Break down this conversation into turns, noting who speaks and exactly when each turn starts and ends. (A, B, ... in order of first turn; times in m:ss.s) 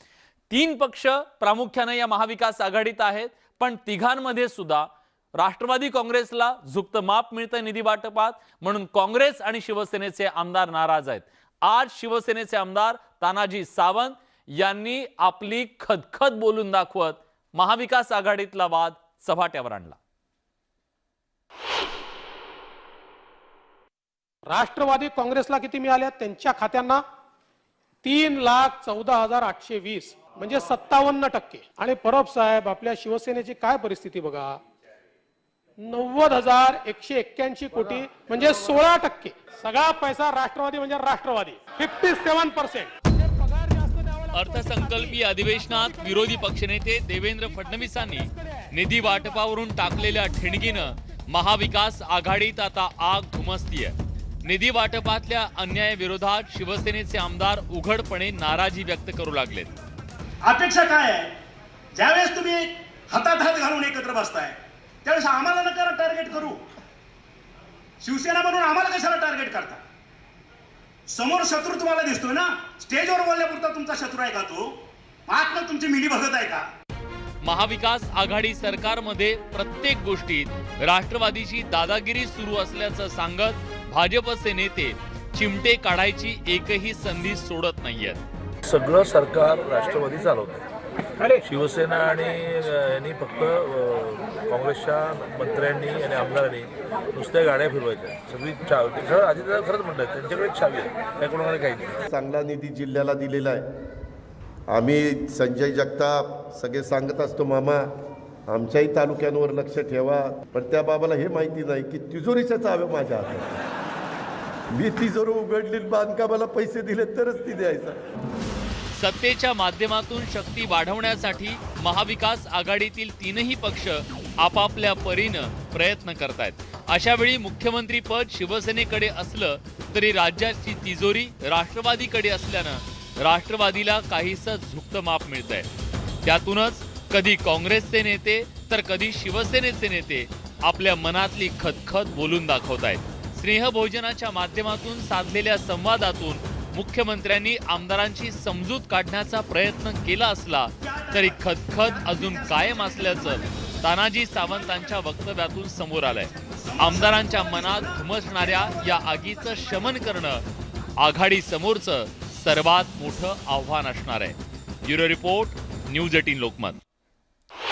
0:00.5-0:20.0 A
0:24.5-0:27.0 B
0:28.0-0:34.6 B
0:35.8-0:46.4 B
0:44.3-0:59.8 A
0:47.6-0:48.5 B
1:05.1-1:06.2 C
1:08.0-1:09.7 C
1:11.1-1:14.6 C
1:15.3-1:16.4 C
1:17.4-1:28.2 A
1:28.6-1:30.6 D
1:31.2-1:42.0 D
1:42.0-1:43.6 E
1:44.7-1:47.9 E
1:48.5-1:53.6 E
1:54.7-1:58.0 E
1:58.9-2:15.7 A
2:16.2-2:40.4 A
2:30.9-2:31.3 C
2:31.9-2:33.1 C
2:36.6-2:39.8 C
2:41.0-2:46.8 A